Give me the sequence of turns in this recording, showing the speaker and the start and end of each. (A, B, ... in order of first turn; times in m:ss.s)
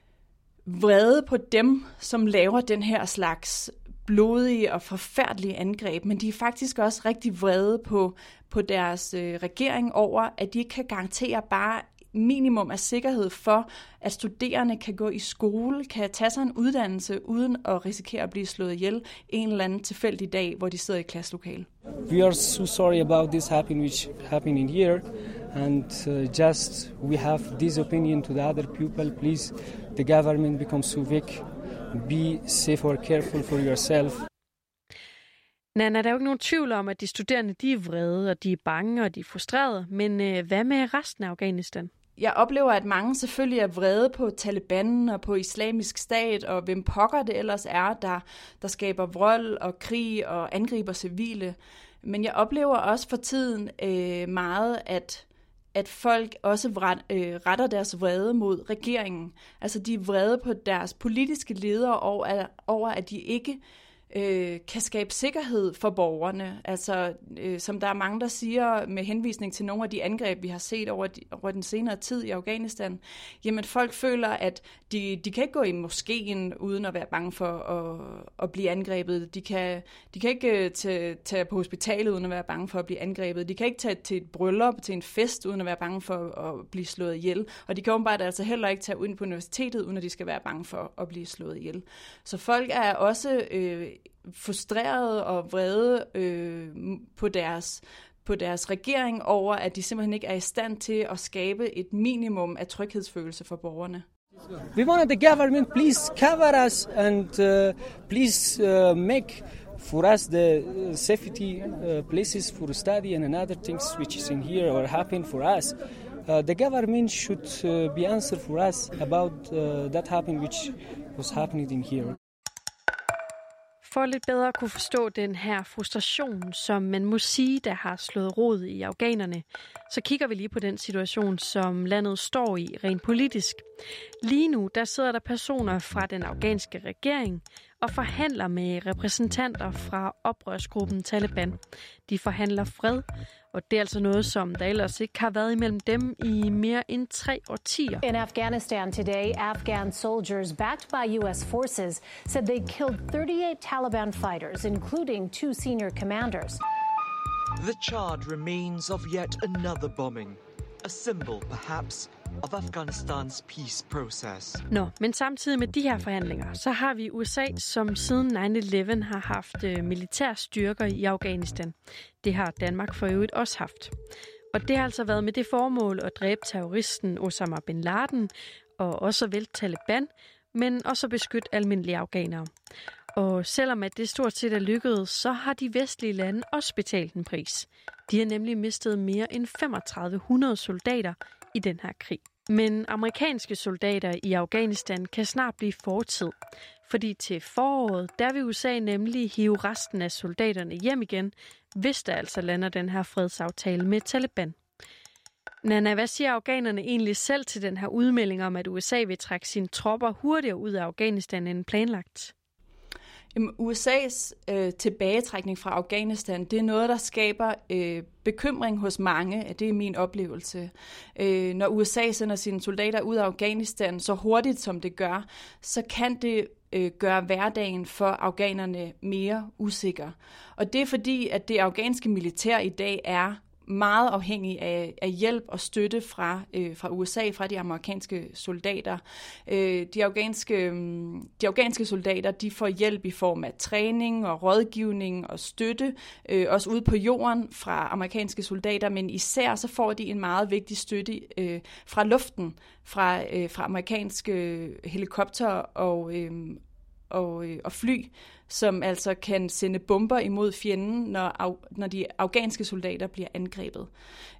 0:00.6-0:21.7 A
0:22.1-0:34.2 B
0:35.7-0:41.9 C
0:42.2-1:03.6 A
1:04.1-1:44.0 A
1:44.7-2:02.2 B
2:03.8-2:13.6 C
2:14.2-2:28.0 C
2:28.0-2:36.6 D
2:37.6-2:44.6 E
2:44.7-2:53.9 C
2:54.5-3:02.5 C
3:03.1-3:24.6 C
3:25.6-3:32.3 C
3:33.3-4:23.9 A